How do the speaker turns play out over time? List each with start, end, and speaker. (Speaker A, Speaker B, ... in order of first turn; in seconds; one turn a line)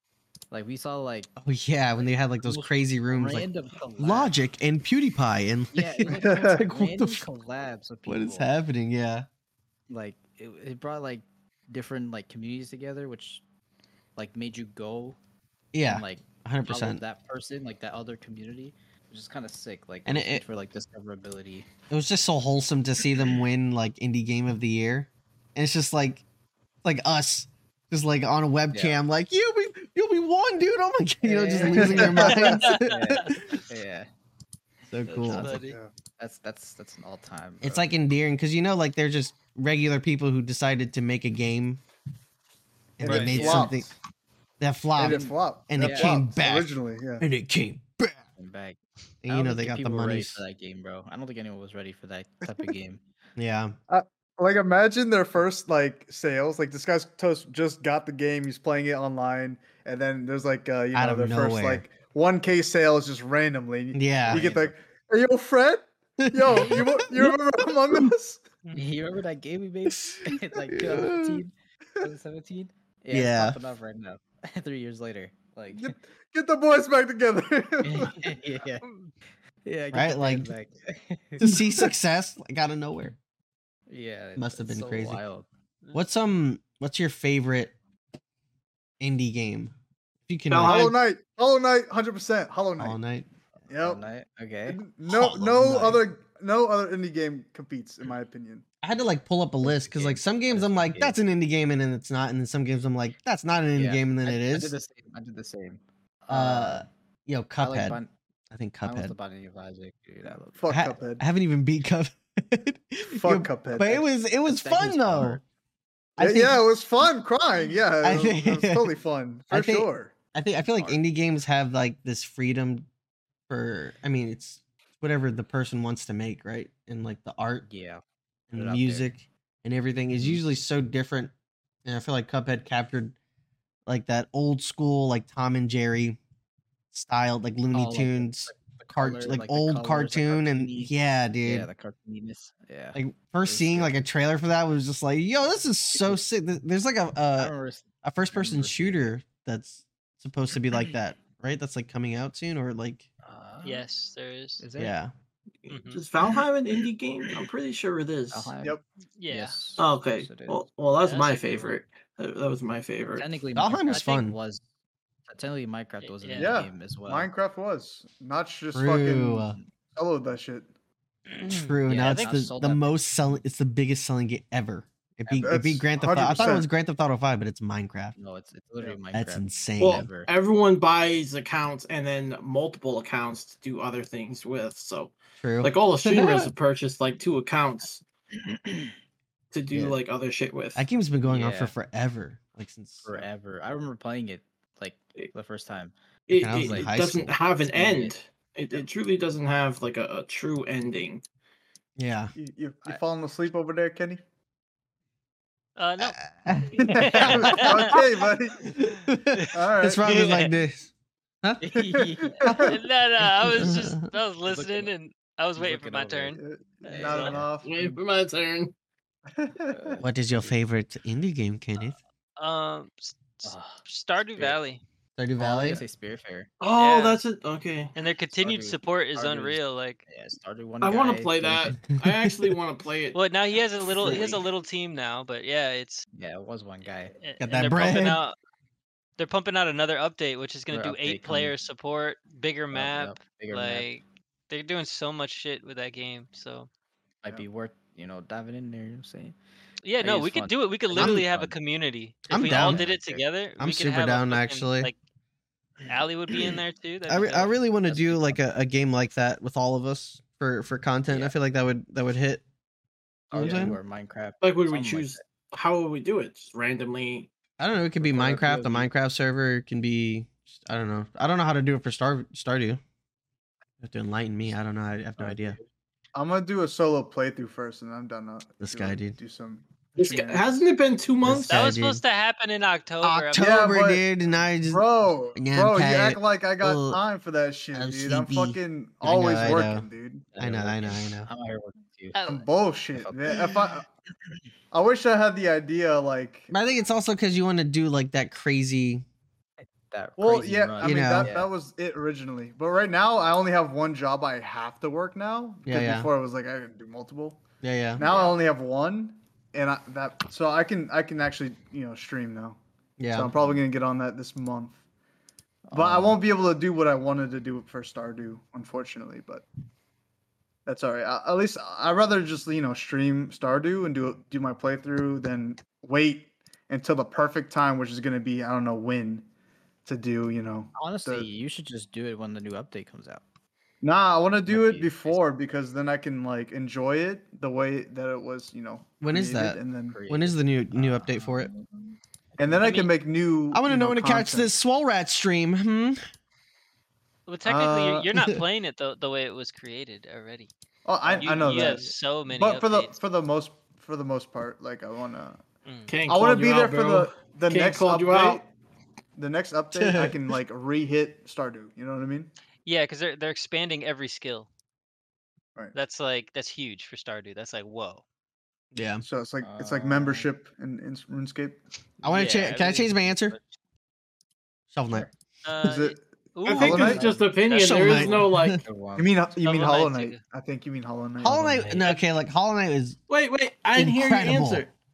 Speaker A: 0.5-1.3
Speaker B: 1.4-3.5
Speaker A: 2.0-4.4
Speaker B: 4.0-7.2
Speaker A: 5.7-8.5
Speaker C: 6.1-6.6
Speaker B: 8.1-9.3
Speaker A: 9.9-13.4
Speaker A: 14.2-15.2
Speaker B: 15.7-17.0
Speaker A: 15.8-21.7
Speaker B: 20.1-20.4
Speaker B: 21.9-26.2
Speaker B: 26.8-33.6
Speaker A: 28.7-29.0
Speaker A: 31.2-34.1
Speaker C: 31.7-32.5
Speaker D: 32.1-33.3
Speaker B: 34.9-35.5
Speaker A: 35.1-35.6
Speaker D: 35.2-35.8
Speaker C: 35.6-35.9
Speaker A: 36.2-37.9
Speaker B: 37.6-41.8
Speaker B: 43.0-43.9
Speaker C: 43.0-43.8
Speaker A: 43.0-43.8
Speaker B: 44.6-48.2
Speaker C: 45.0-47.2
Speaker A: 45.0-46.2
Speaker A: 48.4-53.0
Speaker B: 49.2-50.4
Speaker B: 53.4-53.7
Speaker C: 53.9-68.4
Speaker B: 60.9-61.8
Speaker B: 63.9-64.5
Speaker A: 64.2-64.7
Speaker B: 66.2-67.3
Speaker A: 68.7-75.9
Speaker B: 69.9-71.4
Speaker B: 73.1-73.6
Speaker C: 75.8-78.3
Speaker A: 77.8-78.9
Speaker A: 79.6-81.5
Speaker B: 79.9-80.5
Speaker B: 81.4-83.2
Speaker A: 83.9-85.5
Speaker B: 84.4-85.2
Speaker B: 85.9-87.7
Speaker B: 89.0-89.7
Speaker B: 90.3-90.9
Speaker E: 90.5-91.0
Speaker C: 90.6-93.0
Speaker B: 92.8-93.2
Speaker A: 93.7-94.8
Speaker C: 93.7-94.0
Speaker C: 94.7-98.6
Speaker B: 95.1-96.0
Speaker A: 95.6-96.0
Speaker B: 98.8-104.7
Speaker A: 99.6-101.2
Speaker A: 103.8-106.9
Speaker B: 106.3-108.0
Speaker A: 107.6-108.1
Speaker B: 108.5-109.1
Speaker A: 108.8-110.7
Speaker C: 110.5-111.2
Speaker B: 110.7-115.4
Speaker C: 113.1-114.0
Speaker A: 114.0-115.4
Speaker B: 116.2-116.6
Speaker C: 116.2-120.1
Speaker B: 118.0-118.9
Speaker B: 119.5-122.8
Speaker A: 120.7-121.0
Speaker B: 123.5-127.7
Speaker A: 127.7-128.0
Speaker B: 128.5-131.3
Speaker A: 128.5-129.1
Speaker B: 131.8-133.1
Speaker B: 133.9-136.2
Speaker B: 136.9-141.7
Speaker A: 137.7-140.9
Speaker A: 141.4-143.9
Speaker B: 142.9-153.1
Speaker A: 145.9-146.2
Speaker A: 147.4-149.1
Speaker A: 153.2-153.8
Speaker D: 153.6-154.6
Speaker A: 154.6-154.9
Speaker B: 154.8-155.1
Speaker E: 155.6-158.5
Speaker D: 155.7-156.0
Speaker A: 158.3-158.8
Speaker D: 159.2-159.5
Speaker A: 159.3-160.6
Speaker E: 159.8-163.3
Speaker D: 161.0-161.7
Speaker A: 163.2-164.6
Speaker B: 163.5-164.3
Speaker A: 165.3-167.3
Speaker D: 166.0-166.5
Speaker C: 166.3-170.7
Speaker B: 168.7-169.6
Speaker D: 171.3-172.3
Speaker B: 171.4-178.2
Speaker A: 171.9-172.9
Speaker A: 175.2-175.6
Speaker C: 175.4-176.7
Speaker A: 178.2-180.3
Speaker B: 179.1-180.1
Speaker E: 179.8-188.0
Speaker B: 185.4-186.5
Speaker A: 188.3-188.9
Speaker E: 189.5-190.8
Speaker B: 190.8-193.2
Speaker A: 191.2-191.7
Speaker A: 193.0-195.9
Speaker E: 196.3-201.2
Speaker B: 196.3-197.3
Speaker A: 196.5-196.9
Speaker A: 197.7-198.1
Speaker B: 202.0-202.3
Speaker C: 202.3-204.2
Speaker D: 205.8-208.0
Speaker B: 206.0-207.9
Speaker C: 206.9-208.7
Speaker B: 208.6-210.9
Speaker C: 209.5-210.4
Speaker D: 210.1-210.4
Speaker B: 211.4-211.7
Speaker A: 211.6-212.6
Speaker C: 211.8-212.7
Speaker D: 212.6-217.4
Speaker B: 213.4-214.0
Speaker A: 214.5-214.9
Speaker A: 215.6-217.5
Speaker C: 216.4-218.0
Speaker E: 217.6-218.7
Speaker C: 219.3-220.0
Speaker A: 219.7-220.5
Speaker B: 220.0-222.0
Speaker D: 222.4-224.8
Speaker A: 223.4-223.8
Speaker B: 225.2-225.8
Speaker A: 225.4-226.5
Speaker E: 226.6-227.9
Speaker D: 226.8-227.2
Speaker D: 227.9-230.0
Speaker A: 228.3-231.8
Speaker E: 230.8-233.2
Speaker B: 231.8-232.5
Speaker D: 233.1-236.1
Speaker B: 234.0-234.3
Speaker A: 236.1-237.1
Speaker D: 237.2-238.4
Speaker B: 237.4-238.2
Speaker D: 239.2-246.7
Speaker A: 240.7-241.5
Speaker A: 242.7-243.9
Speaker A: 247.2-249.3
Speaker D: 249.8-254.9
Speaker A: 250.0-251.5
Speaker B: 250.9-251.2
Speaker A: 252.3-253.2
Speaker B: 252.3-252.9
Speaker B: 253.6-254.9
Speaker D: 255.9-257.5
Speaker B: 257.1-262.4
Speaker A: 257.9-258.4
Speaker A: 261.1-261.4
Speaker A: 263.3-265.2
Speaker B: 263.3-263.8
Speaker E: 264.4-267.3
Speaker B: 267.6-272.8
Speaker A: 268.0-268.9
Speaker B: 273.8-275.6
Speaker A: 275.2-275.6
Speaker C: 276.1-280.7
Speaker B: 278.6-279.2
Speaker E: 280.0-281.6
Speaker B: 281.2-282.0
Speaker D: 281.4-283.4
Speaker B: 283.0-284.8
Speaker C: 283.4-284.0
Speaker C: 284.7-290.2
Speaker B: 285.4-287.0
Speaker B: 287.7-291.3
Speaker A: 290.3-292.2
Speaker D: 292.1-292.4
Speaker C: 292.3-293.9
Speaker A: 292.9-293.6
Speaker C: 294.7-296.5
Speaker B: 296.5-299.0
Speaker A: 299.6-301.5
Speaker C: 300.2-307.4
Speaker B: 300.8-301.3
Speaker B: 305.6-306.1
Speaker B: 307.6-308.0
Speaker C: 308.0-312.6
Speaker A: 308.0-308.4
Speaker B: 313.0-313.3
Speaker C: 313.1-314.8
Speaker C: 315.7-319.4
Speaker B: 315.7-316.1
Speaker C: 320.6-329.2
Speaker C: 329.8-331.2
Speaker A: 330.8-333.2
Speaker C: 333.8-340.0
Speaker A: 334.4-335.2
Speaker B: 339.0-341.5
Speaker A: 339.9-341.7
Speaker A: 342.4-342.6
Speaker C: 342.4-344.5
Speaker D: 342.6-342.9
Speaker B: 343.5-346.0
Speaker D: 347.3-350.5
Speaker C: 347.4-348.1
Speaker C: 350.8-355.4
Speaker A: 351.1-351.7
Speaker D: 351.1-352.9
Speaker D: 355.6-355.9
Speaker E: 355.9-358.4
Speaker C: 356.1-358.4
Speaker C: 359.1-362.3
Speaker B: 359.7-360.2
Speaker D: 362.6-364.5
Speaker D: 365.7-368.0
Speaker B: 368.7-369.0
Speaker C: 369.0-371.6
Speaker A: 369.4-370.3
Speaker B: 372.0-373.4
Speaker D: 372.0-373.4
Speaker B: 374.7-375.1
Speaker D: 375.4-378.2
Speaker C: 375.6-377.2
Speaker E: 376.4-378.6
Speaker A: 376.9-377.2
Speaker B: 377.6-378.6
Speaker A: 378.6-379.1
Speaker C: 379.0-381.8
Speaker D: 379.4-380.2
Speaker B: 381.2-383.0
Speaker E: 383.1-384.7
Speaker B: 383.7-384.6